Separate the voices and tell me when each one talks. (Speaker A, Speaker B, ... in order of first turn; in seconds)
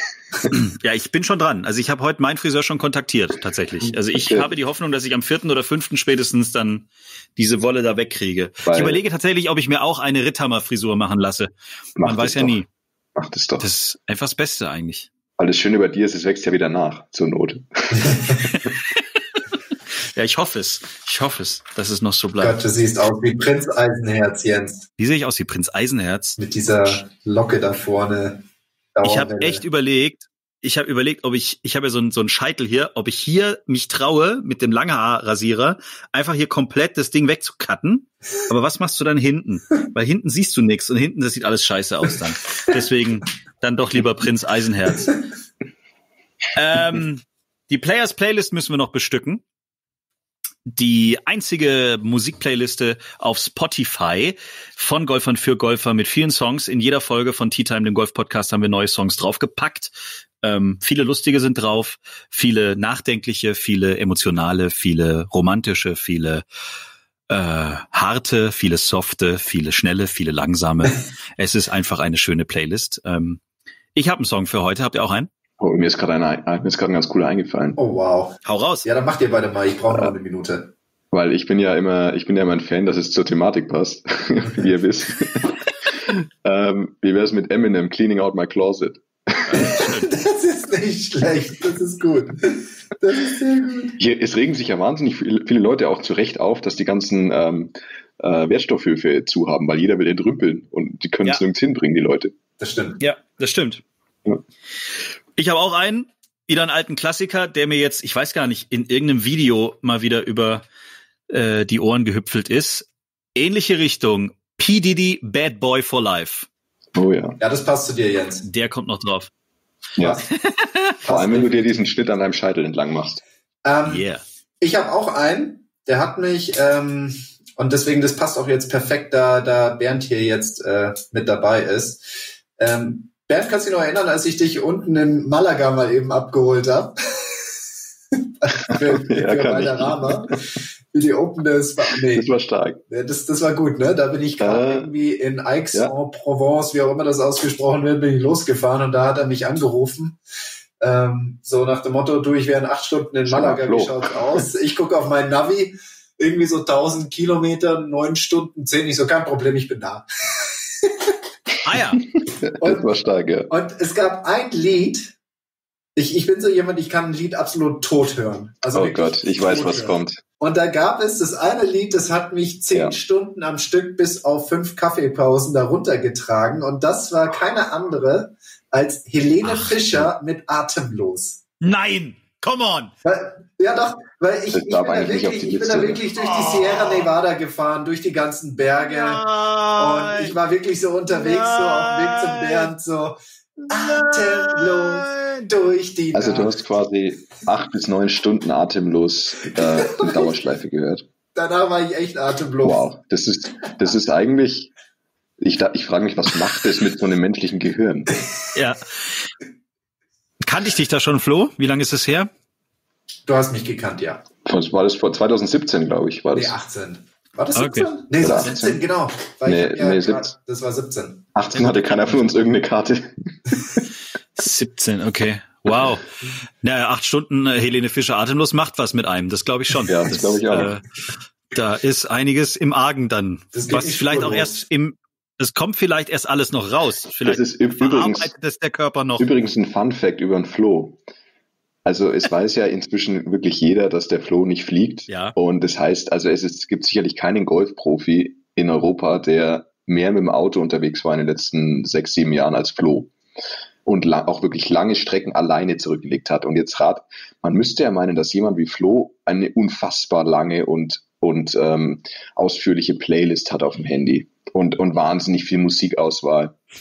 Speaker A: 0.3-0.6, 4.1-4.5, 8.7-9.0, 12.0-12.6, 13.2-13.7, 15.4-18.3, 75.6-77.8, 79.9-80.2, 81.1-89.7, 94.0-102.3, 117.0-117.4, 121.1-123.2, 138.7-140.3, 142.1-142.8, 144.4-144.9, 153.3-154.4, 162.3-163.5, 168.7-170.2, 184.5-186.0, 196.1-201.1, 202.6-204.7, 205.4-208.1, 214.4-216.6, 218.2-218.6, 219.5-220.3, 221.3-223.2, 229.9-230.8, 237.2-238.3, 239.2-241.0, 241.8-253.1, 253.9-266.6
Speaker B: 0.5-12.7, 13.6-15.1, 18.5-19.0, 20.1-22.6, 25.0-26.4, 29.0-45.2, 46.5-49.4, 50.7-66.4, 67.3-73.4, 74.0-75.3, 78.5-78.9, 89.5-90.1, 103.0-103.8, 105.4-110.7, 111.3-116.5, 118.5-119.3, 120.5-120.9, 123.9-124.2, 161.6-162.0, 179.4-179.8, 181.6-182.9, 186.2-187.1, 188.9-190.3, 191.1-192.7, 193.7-195.5, 208.5-208.8, 210.4-212.3, 217.6-218.8, 221.5-222.2, 224.4-226.1, 226.6-230.8, 231.5-239.3, 245.1-245.3
Speaker C: 18.0-18.3, 22.4-24.9, 26.4-28.4, 28.9-29.6, 77.8-80.7, 90.0-94.0, 102.6-103.0, 117.4-118.5, 120.0-120.3, 121.0-121.8, 123.7-124.1, 124.6-137.3, 138.4-142.3, 142.9-150.2, 150.8-160.1, 162.6-162.9, 163.5-165.2, 166.0-181.4, 183.1-189.2, 189.8-193.2, 193.7-196.5, 199.5-200.3, 201.3-202.9, 213.3-214.2, 216.3-221.3, 233.5-234.7